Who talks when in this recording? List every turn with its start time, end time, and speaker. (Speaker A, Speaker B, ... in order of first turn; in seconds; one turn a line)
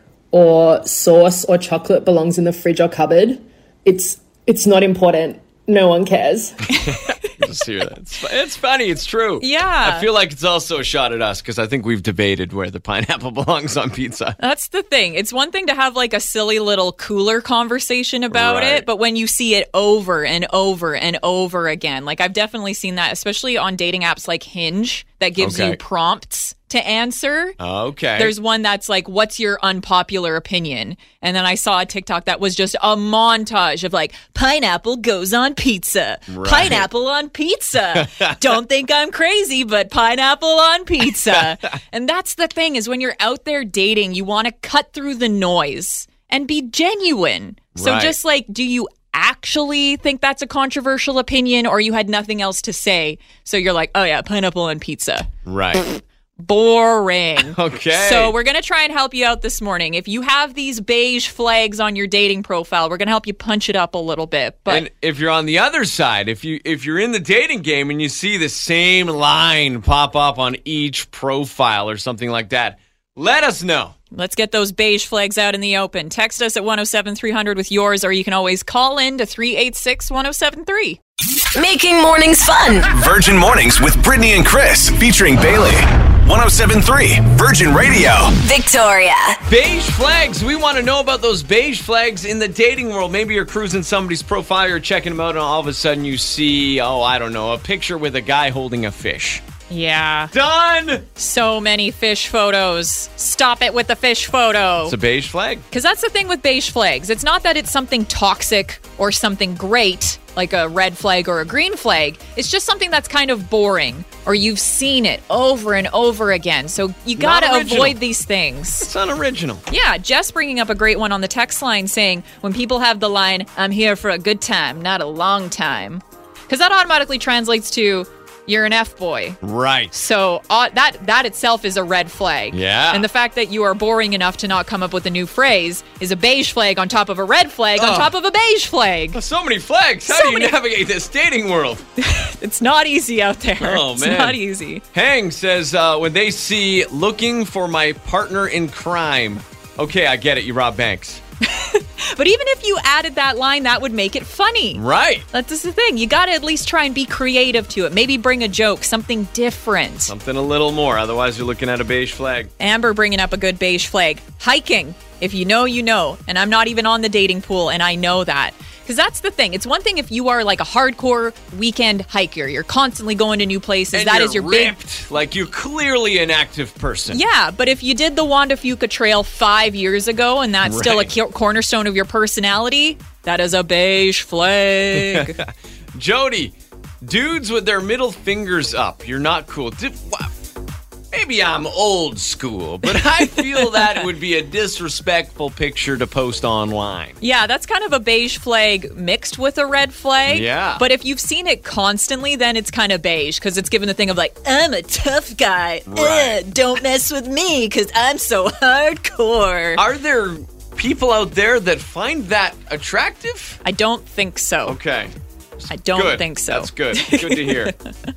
Speaker A: 0.3-6.6
Speaker B: 6.8-14.4
Speaker C: 9.4-10.1
Speaker C: 14.4-27.6
Speaker B: 18.3-18.9
Speaker B: 25.4-25.8
Speaker B: 27.6-28.4
Speaker C: 28.2-55.3
Speaker B: 36.3-36.9
Speaker B: 37.9-38.4
Speaker B: 47.8-48.1
Speaker B: 55.5-55.9
Speaker C: 56.4-64.9
Speaker B: 57.5-58.4
Speaker B: 64.7-73.9
Speaker C: 74.1-81.0
Speaker D: 81.5-82.9
Speaker E: 82.9-88.4
Speaker D: 88.4-89.4
Speaker B: 89.5-99.4
Speaker C: 99.7-100.3
Speaker B: 100.3-101.1
Speaker C: 101.2-105.0
Speaker B: 104.9-105.7
Speaker C: 105.7-118.9
Speaker B: 117.2-118.0
Speaker B: 118.8-119.6
Speaker C: 119.7-129.4
Speaker B: 129.4-129.9
Speaker C: 129.9-139.2
Speaker B: 132.5-133.1
Speaker B: 137.8-138.1
Speaker B: 139.2-141.8
Speaker C: 140.1-140.5
Speaker C: 142.0-144.8
Speaker B: 143.6-144.4
Speaker B: 144.9-151.2
Speaker C: 151.4-160.1
Speaker B: 154.7-155.2
Speaker B: 160.1-162.5
Speaker C: 162.6-174.8
Speaker B: 173.9-177.2
Speaker C: 177.1-185.4
Speaker B: 180.7-181.1
Speaker B: 184.9-190.3
Speaker B: 191.1-197.2
Speaker C: 193.6-193.9
Speaker C: 197.2-209.8
Speaker B: 200.3-200.8
Speaker B: 205.9-206.4
Speaker B: 209.8-213.6
Speaker C: 213.7-214.8
Speaker B: 214.7-217.7
Speaker C: 215.7-217.8